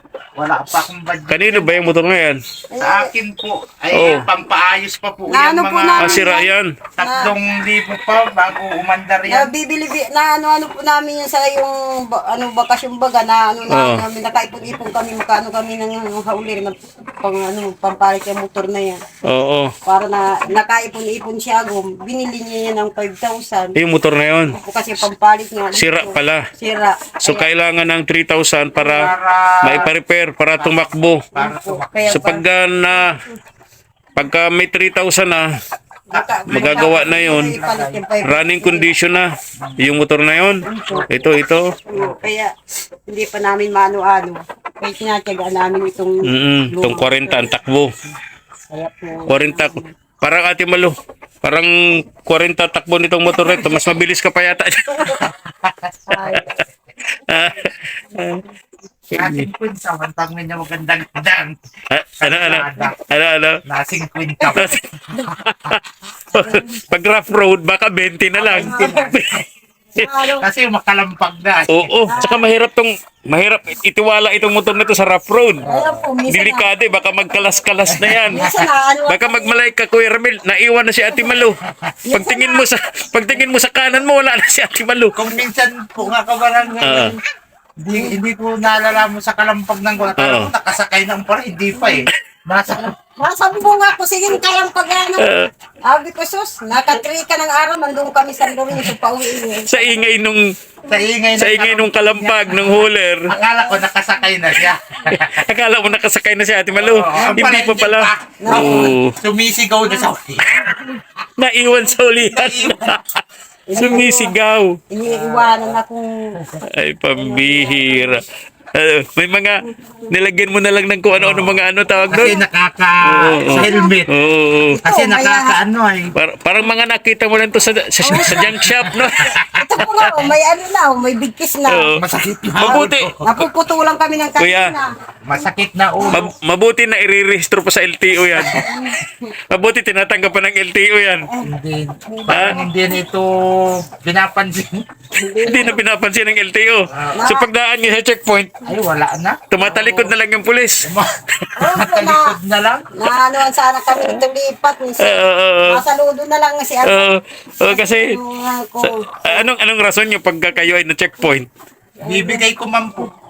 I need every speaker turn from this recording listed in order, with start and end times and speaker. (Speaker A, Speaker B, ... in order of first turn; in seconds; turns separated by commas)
Speaker A: 0.3-1.9, Speaker B: 1.3-2.4, Speaker C: 2.7-3.1, Speaker A: 2.8-6.3, Speaker B: 3.9-4.3, Speaker C: 5.3-7.3, Speaker B: 6.0-6.8, Speaker A: 7.0-9.5, Speaker C: 9.3-19.0, Speaker B: 13.7-14.0, Speaker B: 19.2-19.7, Speaker C: 19.8-23.8, Speaker B: 23.8-24.5, Speaker C: 24.5-27.5, Speaker B: 25.7-26.4, Speaker B: 27.2-29.1, Speaker C: 28.8-29.1, Speaker A: 28.8-29.9, Speaker B: 29.6-31.2, Speaker A: 30.6-32.2, Speaker C: 31.3-32.4, Speaker B: 32.1-33.1, Speaker B: 34.1-35.5, Speaker C: 36.1-38.9, Speaker A: 36.1-38.0, Speaker B: 36.5-37.5, Speaker B: 38.2-41.6, Speaker A: 39.6-39.9, Speaker C: 40.6-41.1, Speaker A: 40.9-41.2, Speaker C: 41.9-42.5, Speaker C: 43.1-47.5, Speaker B: 46.3-47.9, Speaker C: 48.7-49.9, Speaker B: 49.3-55.3, Speaker A: 55.1-55.9, Speaker C: 56.1-56.6, Speaker B: 56.2-56.5, Speaker B: 57.1-58.4, Speaker B: 59.1-59.5, Speaker A: 59.1-61.6, Speaker B: 61.9-63.6, Speaker A: 62.2-63.0, Speaker A: 63.6-65.8, Speaker B: 64.5-64.8, Speaker B: 65.4-69.4, Speaker C: 66.3-66.7, Speaker A: 68.3-69.2, Speaker C: 68.5-69.1, Speaker C: 69.9-70.5, Speaker B: 70.0-70.3, Speaker A: 70.4-72.2, Speaker B: 71.7-75.6, Speaker C: 72.1-72.5, Speaker A: 75.6-76.0, Speaker C: 75.6-76.7, Speaker B: 76.3-78.5, Speaker A: 77.9-78.5, Speaker C: 78.3-79.6, Speaker B: 79.1-85.2, Speaker A: 81.7-81.9, Speaker C: 82.0-82.7, Speaker A: 85.1-87.2, Speaker B: 86.8-87.2, Speaker A: 87.8-92.9, Speaker B: 90.2-90.5, Speaker C: 92.8-95.3, Speaker B: 95.2-95.5, Speaker C: 95.9-99.9, Speaker B: 99.6-100.4, Speaker A: 100.9-105.5, Speaker B: 101.4-103.3, Speaker B: 105.1-109.1, Speaker A: 106.7-110.8, Speaker C: 108.4-108.9, Speaker B: 111.4-113.2, Speaker A: 112.3-113.0, Speaker C: 113.7-114.3, Speaker B: 113.8-114.8, Speaker C: 114.9-116.1, Speaker A: 115.0-115.8, Speaker B: 116.7-118.2, Speaker C: 117.2-118.2, Speaker B: 118.7-122.3, Speaker A: 121.1-124.1, Speaker C: 122.0-122.4, Speaker B: 123.0-124.8, Speaker C: 123.5-123.9, Speaker A: 124.7-126.1, Speaker C: 124.7-125.6, Speaker B: 126.2-130.0, Speaker C: 128.0-128.6, Speaker A: 128.1-130.3, Speaker C: 129.5-131.9, Speaker B: 131.7-132.0, Speaker A: 131.9-133.1, Speaker B: 132.6-133.5, Speaker C: 132.6-134.9, Speaker B: 134.4-134.8, Speaker A: 135.2-136.2, Speaker B: 136.1-138.7, Speaker C: 138.4-139.3, Speaker B: 139.5-141.3, Speaker A: 141.4-144.8, Speaker C: 142.1-142.7, Speaker B: 142.3-142.5, Speaker C: 145.1-145.8, Speaker B: 145.4-148.6, Speaker A: 146.9-147.3, Speaker C: 147.2-147.5, Speaker A: 148.6-150.0, Speaker B: 149.5-150.9, Speaker A: 150.8-152.9, Speaker C: 151.6-152.3, Speaker C: 152.9-157.1, Speaker B: 155.0-155.8, Speaker B: 156.8-158.2, Speaker C: 157.7-159.5, Speaker B: 158.8-161.5, Speaker C: 162.0-162.4, Speaker A: 162.0-163.1